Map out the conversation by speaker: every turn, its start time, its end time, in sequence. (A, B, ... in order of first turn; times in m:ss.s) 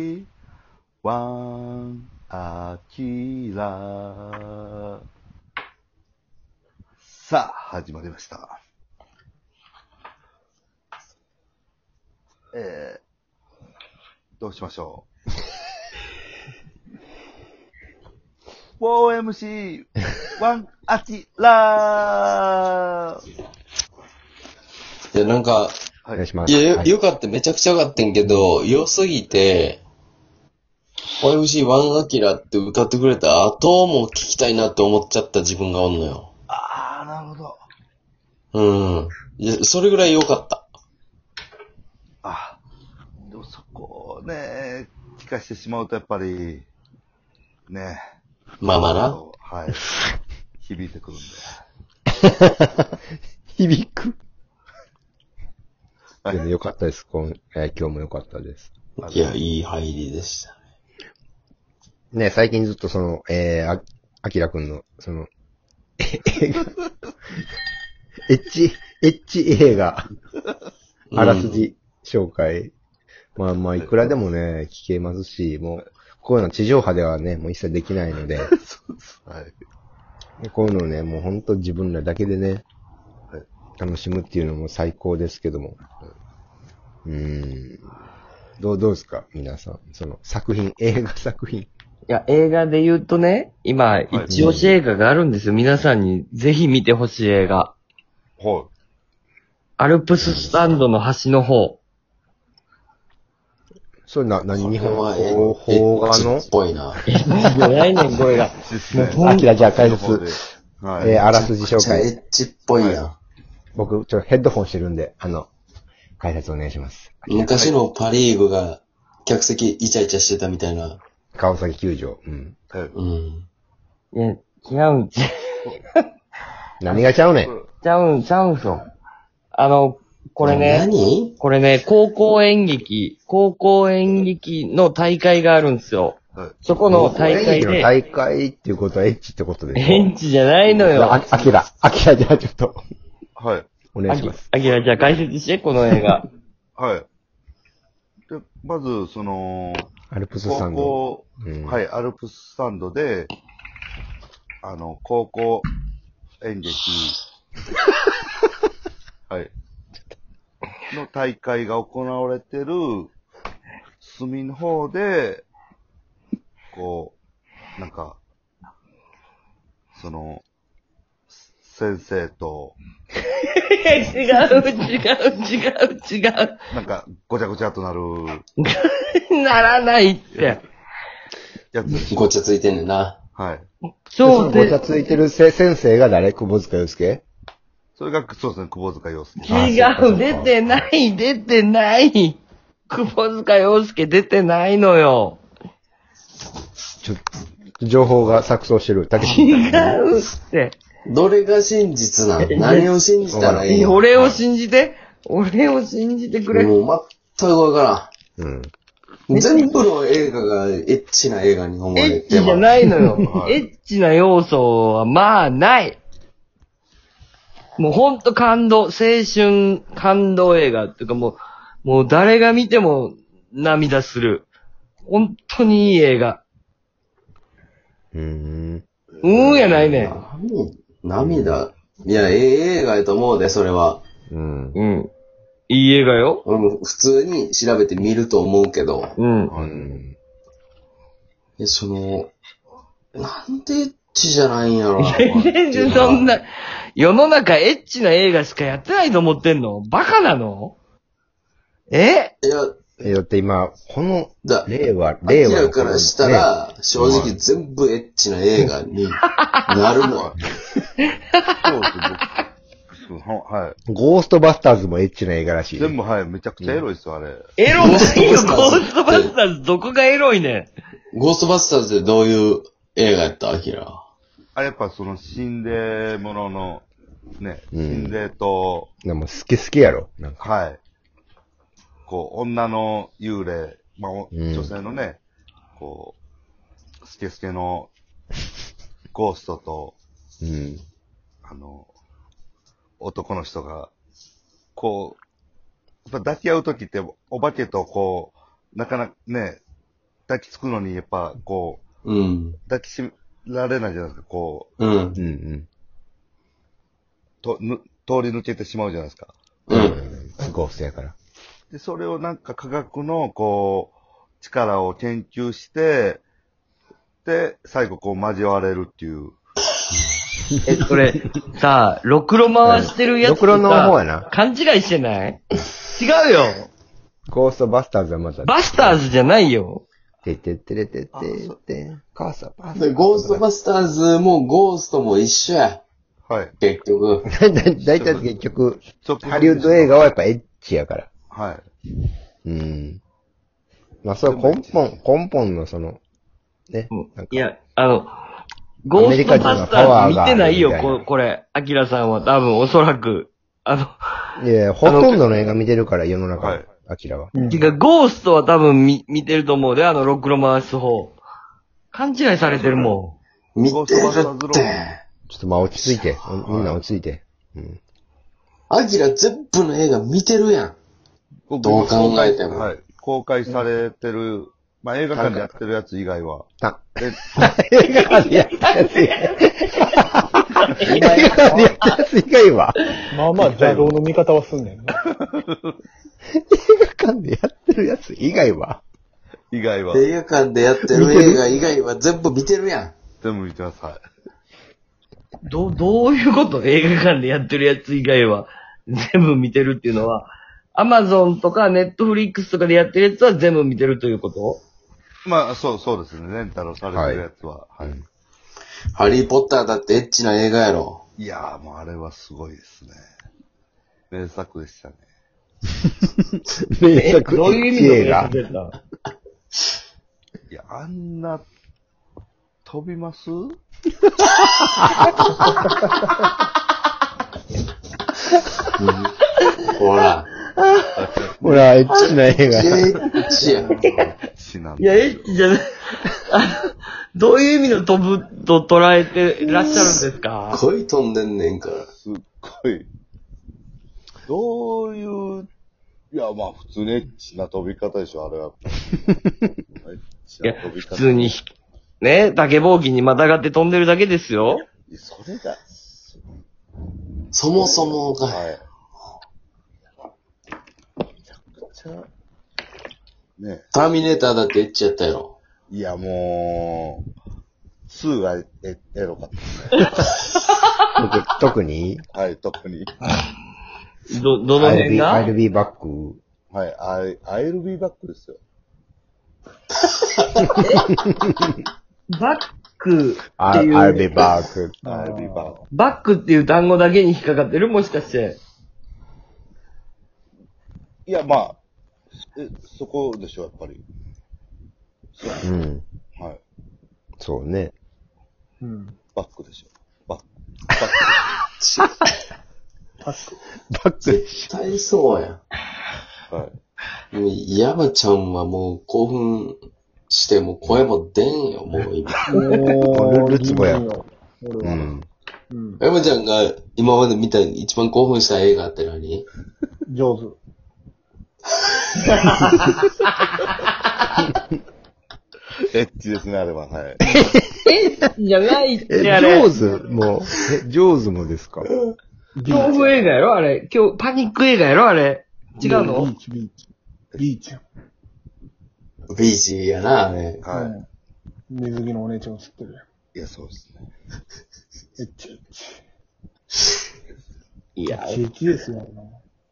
0:01.0-0:04.6 A
0:07.0-0:08.6 A
0:12.5-0:13.0 A
0:14.4-0:15.1 A
0:18.8-0:23.2 A
0:25.1-0:25.7 B
0:26.2-0:26.9 C
0:26.5-0:29.8 B
0:31.2-0:36.3 B
0:36.5-0:37.6 A
0:38.5-0:40.7 B
0:42.2-0:42.6 A
0:43.3-0:46.7 A
0:47.7-0:48.0 A
0:48.6-0:49.2 B
0:48.7-0:49.9 A
0:50.6-0:51.5 A
0:52.2-0:52.9 C
0:53.5-0:54.2 C
0:56.3-0:58.7 C
0:59.0-1:00.6 B
0:59.0-0:59.4 A
1:02.1-1:05.3 C
1:06.0-1:06.7 C
1:08.3-1:10.1 C
1:11.1-1:11.7 B
1:11.1-1:12.7 C
1:13.4-1:18.5 C
1:18.4-1:19.6 A
1:20.4-1:22.6 C
1:23.8-1:25.9 C
1:27.0-1:27.9 C
1:28.6-1:31.7 C
1:32.1-1:37.8 D
1:34.1-1:34.4 A
1:34.3-1:34.8 C
1:38.4-1:38.7 A
1:39.8-1:41.8 D
1:40.2-1:40.8 C
1:44.1-1:46.5 C
1:44.5-1:47.2 B
1:47.1-1:49.5 D
1:48.6-1:51.2 A
1:49.1-1:50.4 C
1:51.0-1:52.1 C
1:51.1-1:53.2 B
1:52.7-1:53.0 A
1:53.8-1:55.5 C
1:56.2-1:57.5 C
1:57.3-2:01.0 B
2:01.3-2:02.6 C
2:02.9-2:03.5 B
2:04.1-2:06.0 D
2:06.8-2:07.5 C
2:07.8-2:08.8 D
2:09.5-2:17.9 D
2:10.4-2:11.3 B
2:16.9-2:22.8 C
2:19.8-2:21.2 D
2:23.4-2:23.7 A
2:23.9-2:24.5 C
2:24.1-2:26.2 D
2:24.6-2:25.2 A
2:26.8-2:27.1 A
2:28.3-2:29.9 A
2:30.1-2:31.8 C
2:30.4-2:33.3 A
2:34.6-2:35.7 A
2:36.4-2:37.2 A
2:40.9-2:43.1 A
2:44.0-2:45.4 A
2:46.7-2:47.2 A
2:47.8-2:48.2 A
2:49.9-2:50.4 A
2:51.3-2:52.8 A
2:53.5-2:56.6 D
2:56.7-2:58.5 A
2:58.6-3:00.6 D
3:01.7-3:02.3 A
3:02.1-3:03.2 B
3:03.4-3:03.7 A
3:04.1-3:04.8 D
3:04.2-3:07.2 C
3:08.0-3:09.8 A
3:09.4-3:15.4 D
3:09.4-3:10.7 C
3:17.8-3:19.8 C
3:19.2-3:20.8 D
3:19.6-3:20.0 B
3:21.1-3:24.0 B
3:22.4-3:22.9 D
3:23.3-3:23.7 C
3:23.5-3:26.7 D
3:26.5-3:28.1 B
3:28.4-3:28.7 C
3:29.3-3:32.8 B
3:29.3-3:29.7 D
3:31.9-3:36.0 D
3:33.3-3:33.6 A
3:37.8-3:44.5 D
3:45.1-3:46.4 D
3:48.1-3:48.8 C
3:49.2-3:50.1 A
3:49.2-3:50.2 D
3:49.4-3:49.8 C
3:50.0-3:54.0 B
3:51.2-3:51.6 C
3:54.3-3:54.8 C
3:54.8-3:55.1 D
3:55.7-3:56.4 D
3:56.4-3:59.2 B
3:59.2-3:59.5 D
3:59.5-4:00.0 A
3:59.5-4:00.2 C
4:01.6-4:02.3 B
4:03.2-4:06.4 B
4:05.0-4:10.8 D
4:05.2-4:06.2 A
4:11.9-4:12.3 D
4:12.4-4:12.8 B
4:13.0-4:17.4 C
4:14.4-4:20.4 B
4:17.0-4:17.4 A
4:19.3-4:19.6 D
4:21.6-4:22.2 A
4:22.9-4:23.8 A
4:23.9-4:26.0 C
4:25.8-4:27.5 A
4:26.6-4:26.8 C
4:27.6-4:30.7 D
4:27.8-4:29.3 B
4:31.1-4:34.0 B
4:34.5-4:36.9 A
4:37.4-4:38.9 A
4:37.7-4:38.2 C
4:39.0-4:40.5 C
4:40.4-4:40.8 A
4:42.0-4:45.2 A
4:44.3-4:44.7 C
4:45.8-4:46.2 A
4:47.0-4:47.9 A
4:49.1-4:50.0 A
4:50.4-4:50.8 C
4:51.4-4:51.9 A
4:53.0-4:53.9 A
4:54.8-4:55.2 A
4:56.1-4:59.6 A
5:00.3-5:01.8 A
5:02.0-5:02.6 B
5:02.7-5:04.7 A
5:04.8-5:05.2 B
5:05.2-5:05.7 C
5:07.4-5:09.3 A
5:09.7-5:10.0 B
5:09.7-5:11.1 C
5:11.7-5:16.2 A
5:17.2-5:19.4 A
5:20.6-5:26.7 D
5:22.6-5:24.2 C
5:27.3-5:29.0 C
5:28.4-5:29.8 D
5:30.2-5:33.4 C
5:31.1-5:31.5 A
5:32.7-5:35.8 B
5:36.3-5:36.5 A
5:36.6-5:37.3 B
5:37.3-5:41.1 C
5:37.9-5:38.2 A
5:39.0-5:40.0 A
5:41.3-5:41.6 A
5:42.4-5:43.0 C
5:44.0-5:46.0 C
5:44.2-5:44.8 A
5:46.7-5:47.4 C
5:46.9-5:48.1 D
5:48.8-5:54.0 D
5:48.9-5:51.1 C
5:54.4-5:57.3 C
5:54.8-5:55.2 D
5:56.4-5:56.7 A
5:57.3-5:57.6 E
5:57.3-6:01.2 D
6:01.9-6:03.2 D
6:02.6-6:02.9 A
6:03.6-6:05.0 B
6:03.6-6:04.8 A
6:05.3-6:07.8 C
6:05.7-6:06.6 B
6:08.7-6:10.8 B
6:11.5-6:17.4 A
6:11.6-6:12.7 B
6:15.1-6:15.5 C
6:16.6-6:22.8 C
6:18.0-6:21.9 D
6:21.0-6:21.7 E
6:23.1-6:24.9 E
6:23.4-6:24.0 A
6:25.1-6:25.8 A
6:26.5-6:28.8 C
6:29.5-6:30.1 A
6:29.9-6:32.9 B
6:30.9-6:31.4 C
6:33.2-6:34.0 A
6:35.4-6:44.6 D
6:45.2-6:48.0 A
6:46.9-6:47.2 C
6:48.9-6:51.0 B
6:51.2-6:53.1 A
6:54.1-6:55.0 A
6:56.7-6:58.3 C
6:57.0-6:58.7 D
7:00.5-7:01.5 A
7:02.6-7:03.6 A
7:04.6-7:05.1 C
7:08.8-7:09.1 B
7:09.7-7:10.3 B
7:11.0-7:11.7 A
7:11.4-7:13.0 C
7:11.9-7:14.1 B
7:13.4-7:13.7 E
7:14.3-7:15.4 A
7:14.8-7:15.6 D
7:16.2-7:20.6 D
7:20.5-7:21.9 B
7:21.9-7:22.9 A
7:24.3-7:25.5 A
7:26.1-7:29.1 A
7:29.8-7:31.4 A
7:30.4-7:34.6 D
7:34.9-7:36.4 A
7:37.3-7:38.4 B
7:37.5-7:38.6 A
7:41.3-7:42.1 A
7:43.4-7:43.7 A
7:43.7-7:45.4 B
7:45.7-7:47.0 A
7:47.9-7:49.9 A
7:51.0-7:52.0 C
7:52.1-7:53.3 A
7:54.1-7:55.3 D
7:54.6-7:56.2 C
7:56.5-7:58.4 A
8:00.0-8:00.5 B
8:00.5-8:01.6 C
8:00.6-8:00.9 D
8:02.1-8:04.3 D
8:03.4-8:04.8 C
8:04.8-8:05.6 E
8:04.8-8:05.6 A
8:05.7-8:08.4 D
8:11.1-8:11.6 A
8:12.3-8:13.8 A
8:15.1-8:15.5 A
8:15.4-8:15.8 C
8:17.2-8:17.7 C
8:18.6-8:19.0 E
8:19.1-8:21.3 A
8:21.6-8:21.9 B
8:23.0-8:23.4 E
8:23.7-8:24.5 C
8:24.0-8:25.4 B
8:27.1-8:29.6 B
8:30.1-8:32.2 B
8:32.3-8:32.6 D
8:32.3-8:34.9 E
8:32.9-8:33.9 C
8:34.6-8:35.1 C
8:35.5-8:35.8 E
8:35.8-8:39.2 B
8:39.9-8:40.4 E
8:41.6-8:42.2 B
8:42.2-8:43.7 D
8:45.6-8:47.0 A
8:47.1-8:47.4 C
8:47.6-8:49.5 D
8:48.9-8:51.7 C
8:52.4-8:53.1 E
8:52.5-8:56.1 D
8:55.6-8:56.6 E
8:57.2-8:57.6 E
8:59.1-9:00.4 B
9:00.4-9:00.7 A
9:00.6-9:00.8 E
9:01.5-9:02.8 E
9:03.1-9:03.9 A
9:05.0-9:05.8 E
9:07.8-9:08.2 D
9:07.9-9:09.2 E